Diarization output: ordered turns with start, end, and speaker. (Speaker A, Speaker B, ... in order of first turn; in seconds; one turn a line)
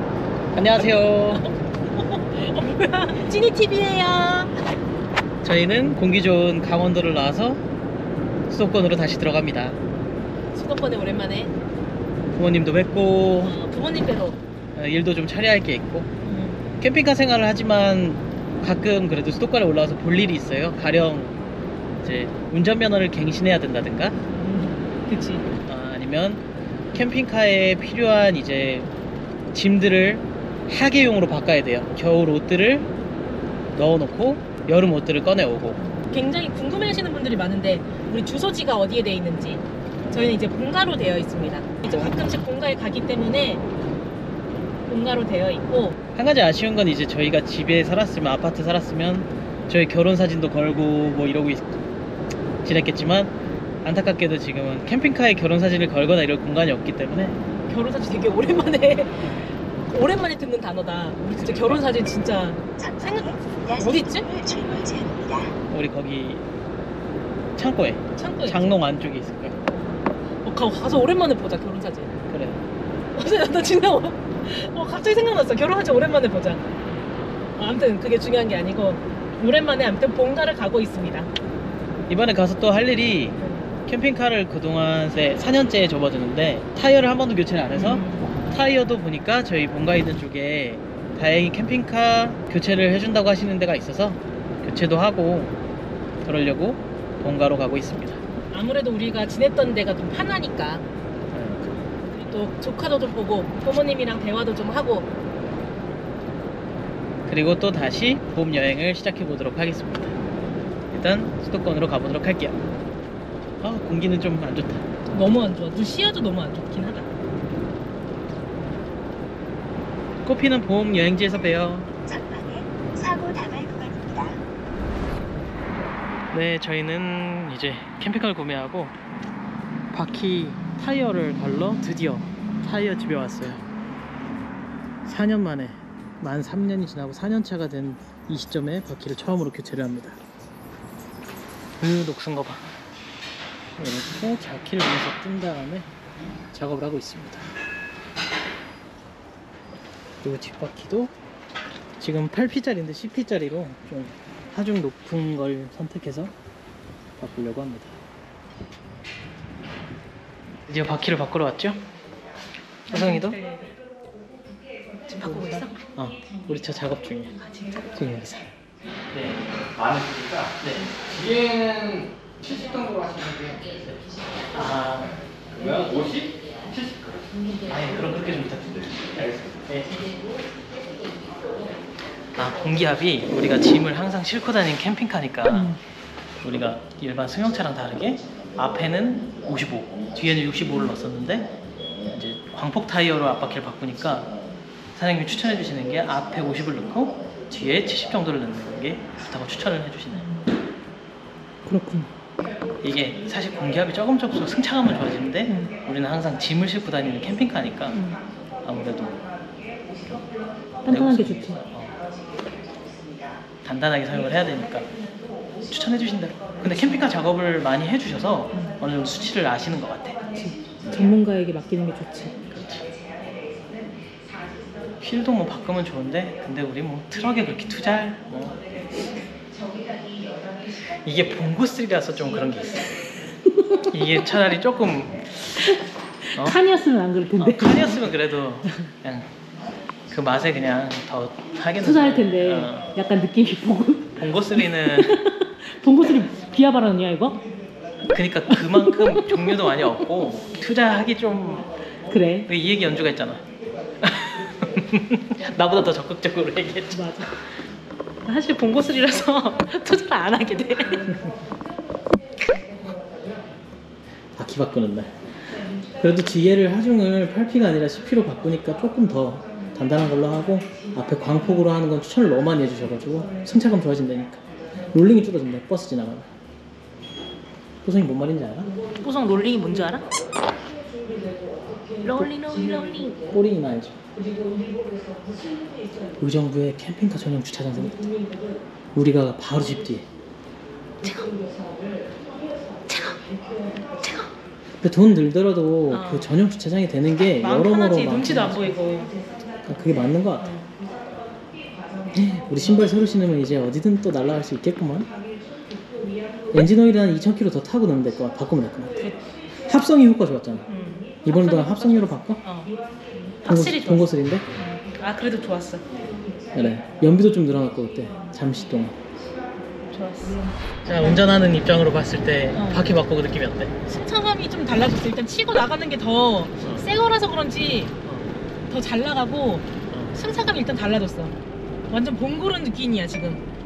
Speaker A: 0.5-1.5
Speaker B: 1.3-4.5
Speaker A: 5.4-7.6
Speaker A: 8.5-9.8
Speaker B: 10.5-11.6
Speaker A: 12.3-13.6
Speaker B: 13.4-14.4
Speaker A: 14.7-16.1
Speaker B: 16.2-16.6
Speaker A: 16.8-21.4
Speaker A: 22.0-24.2
Speaker B: 24.3-25.4
Speaker A: 25.6-28.9
Speaker A: 29.5-32.9
Speaker A: 33.7-35.8
Speaker B: 35.8-43.6
Speaker A: 41.8-42.1
Speaker B: 44.9-46.0
Speaker A: 46.1-51.8
Speaker A: 52.6-57.4
Speaker B: 57.7-64.3
Speaker A: 61.4-61.8
Speaker C: 62.8-65.5
Speaker A: 65.7-66.5
Speaker A: 67.5-69.6
Speaker B: 68.2-68.8
Speaker B: 70.4-72.2
Speaker A: 72.3-72.6
Speaker B: 73.1-76.7
Speaker B: 77.6-81.3
Speaker A: 82.1-95.5
Speaker B: 83.4-83.7
Speaker B: 87.7-88.3
Speaker A: 96.2-98.2
Speaker B: 98.5-100.8
Speaker A: 101.3-101.6
Speaker B: 102.2-105.1
Speaker A: 107.2-110.2
Speaker A: 110.9-112.6
Speaker A: 113.6-114.8
Speaker B: 115.1-117.1
Speaker A: 120.2-121.9
Speaker C: 122.1-124.4
Speaker A: 126.3-128.9
Speaker A: 129.9-133.6
Speaker A: 135.0-140.2
Speaker A: 141.8-142.7
Speaker A: 143.8-145.9
Speaker A: 146.5-147.5
Speaker A: 150.2-151.1
Speaker A: 152.0-156.3
Speaker A: 157.2-158.0
Speaker A: 160.7-161.8
Speaker B: 162.9-163.7
Speaker A: 162.9-163.4
Speaker B: 165.1-165.8
Speaker A: 165.2-167.3
Speaker B: 167.4-167.9
Speaker A: 167.9-168.5
Speaker A: 169.1-169.4
Speaker D: 169.7-170.5
Speaker A: 170.6-170.9
Speaker D: 171.1-174.0
Speaker A: 174.5-175.2
Speaker D: 175.5-177.2
Speaker A: 177.7-180.2
Speaker D: 179.2-179.5
Speaker A: 182.3-185.8
Speaker B: 185.5-185.8
Speaker A: 186.4-191.5
Speaker A: 192.0-194.3
Speaker A: 194.9-200.3
Speaker B: 200.1-200.5
Speaker B: 201.7-202.1
Speaker A: 202.8-208.0
Speaker B: 207.9-208.2
Speaker A: 208.6-209.2
Speaker B: 210.8-211.6
Speaker A: 210.9-212.0
Speaker A: 213.6-214.9
Speaker A: 215.6-220.2
Speaker B: 218.5-218.8
Speaker B: 220.3-222.4
Speaker A: 222.5-223.1
Speaker A: 225.0-228.6
Speaker A: 230.9-233.1
Speaker A: 233.9-235.6
Speaker B: 235.8-238.0
Speaker A: 237.4-239.3
Speaker A: 240.1-242.9
Speaker B: 241.8-247.4
Speaker A: 244.2-245.2
Speaker A: 248.1-251.7
Speaker B: 248.5-249.9
Speaker B: 252.1-252.5
Speaker A: 252.4-253.4
Speaker A: 254.0-257.2
Speaker B: 256.9-257.4
Speaker B: 258.2-261.2
Speaker A: 264.3-265.1
Speaker A: 265.9-276.3
Speaker A: 277.8-278.7
Speaker B: 278.9-280.1
Speaker B: 282.0-283.3
Speaker A: 283.3-284.0
Speaker B: 284.3-284.8
Speaker A: 286.2-288.1
Speaker A: 288.9-290.1
Speaker B: 291.0-291.4
Speaker B: 292.9-294.3
Speaker A: 294.8-298.8
Speaker B: 295.9-296.4
Speaker B: 297.4-299.2
Speaker A: 299.6-300.6
Speaker B: 300.4-300.8
Speaker A: 302.1-305.1
Speaker A: 306.5-309.0
Speaker B: 309.0-309.3
Speaker A: 309.6-310.7
Speaker B: 310.7-312.8
Speaker A: 311.2-312.4
Speaker B: 313.4-315.8
Speaker A: 313.4-314.5
Speaker A: 316.5-318.9
Speaker B: 319.8-321.2
Speaker A: 320.8-323.7
Speaker B: 322.5-322.9
Speaker B: 323.9-327.9
Speaker A: 328.0-328.3
Speaker B: 328.7-331.3
Speaker A: 329.9-330.1
Speaker B: 331.9-333.4